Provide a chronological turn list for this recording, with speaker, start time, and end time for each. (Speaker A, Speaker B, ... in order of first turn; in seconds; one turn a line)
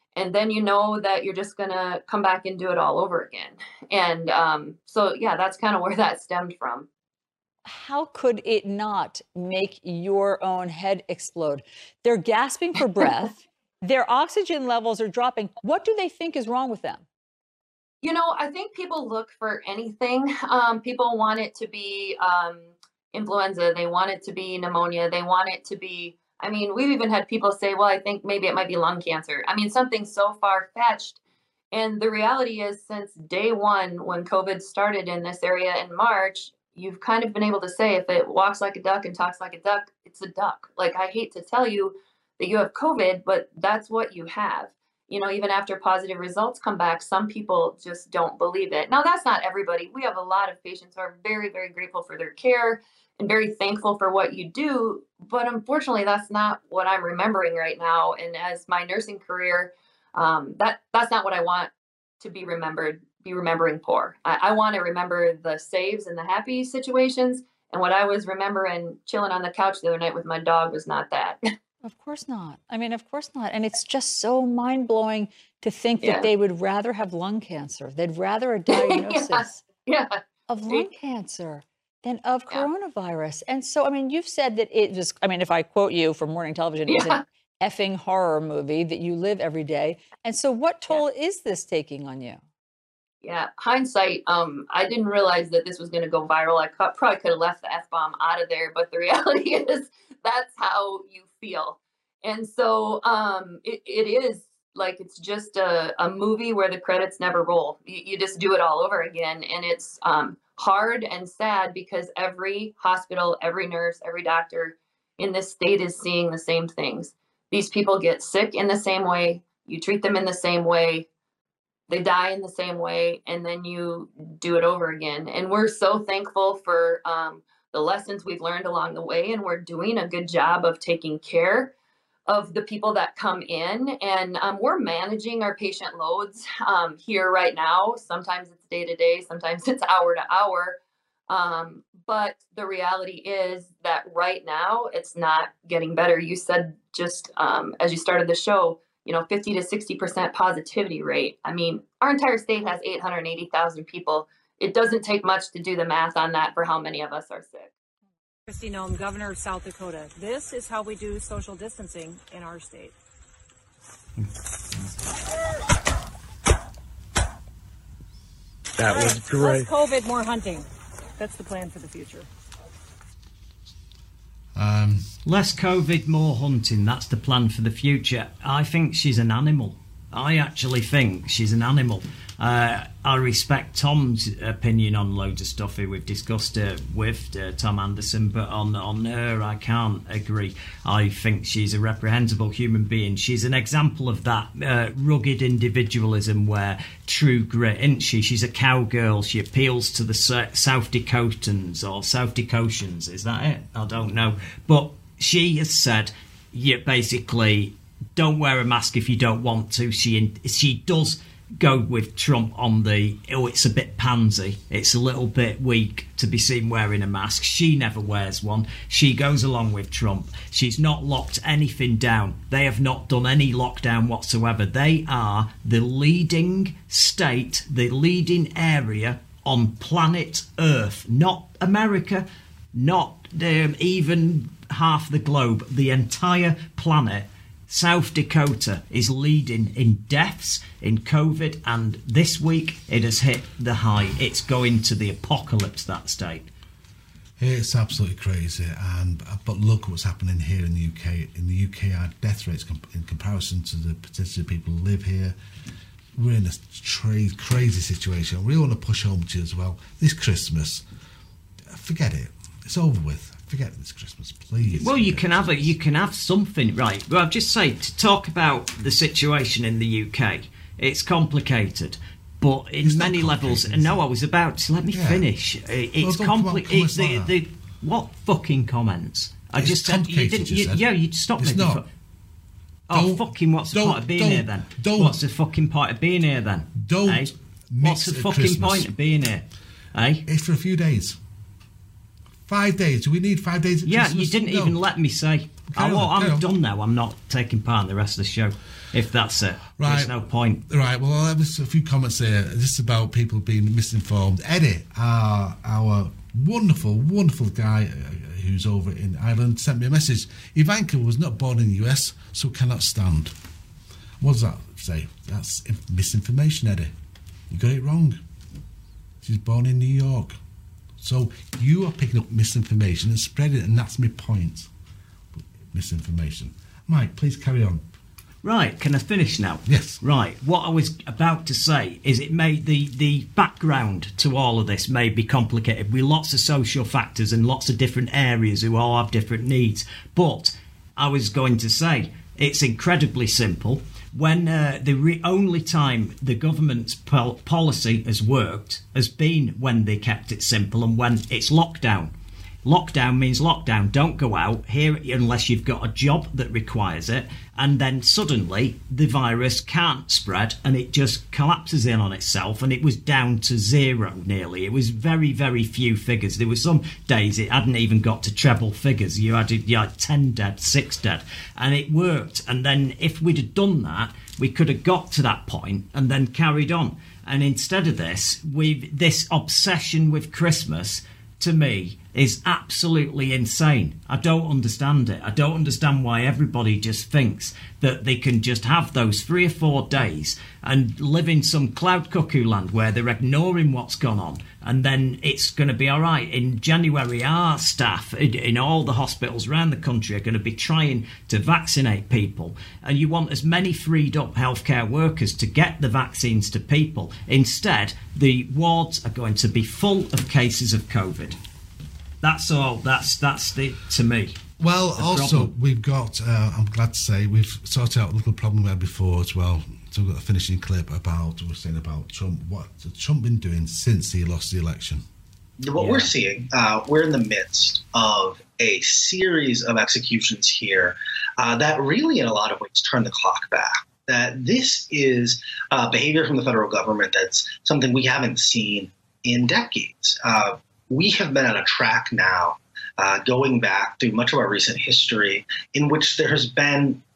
Speaker A: 0.1-6.9
Speaker B: 7.6-17.0
Speaker A: 18.0-31.2
Speaker A: 31.7-71.4
Speaker B: 71.8-79.7
Speaker A: 76.0-76.3
Speaker A: 78.7-80.9
Speaker B: 80.5-92.4
Speaker A: 86.8-87.2
Speaker A: 93.2-121.0
Speaker A: 121.9-131.7
Speaker A: 132.3-140.8
Speaker A: 141.3-157.7
Speaker C: 158.5-162.9
Speaker C: 168.8-170.7
Speaker C: 171.2-172.2
Speaker D: 174.5-175.1
Speaker E: 175.2-246.5
Speaker D: 247.4-255.3
Speaker D: 256.1-260.8
Speaker D: 261.7-265.7
Speaker E: 264.8-281.9
Speaker D: 272.8-274.0
Speaker D: 274.9-275.2
Speaker D: 276.0-277.3
Speaker D: 279.6-280.9
Speaker D: 281.4-281.8
Speaker E: 282.9-287.3
Speaker D: 282.9-285.2
Speaker D: 286.7-288.9
Speaker E: 287.8-290.2
Speaker D: 290.2-291.2
Speaker D: 292.5-294.8
Speaker E: 293.9-300.6
Speaker D: 295.7-296.4
Speaker D: 299.8-313.3
Speaker D: 314.2-316.9
Speaker D: 317.5-318.2
Speaker D: 319.2-320.4
Speaker D: 321.0-324.7
Speaker D: 325.7-327.8
Speaker E: 328.4-352.1
Speaker D: 329.6-330.0
Speaker E: 352.6-411.4
Speaker E: 412.2-414.4
Speaker D: 414.6-425.0
Speaker E: 414.9-415.5
Speaker F: 425.6-447.0
Speaker E: 425.8-426.1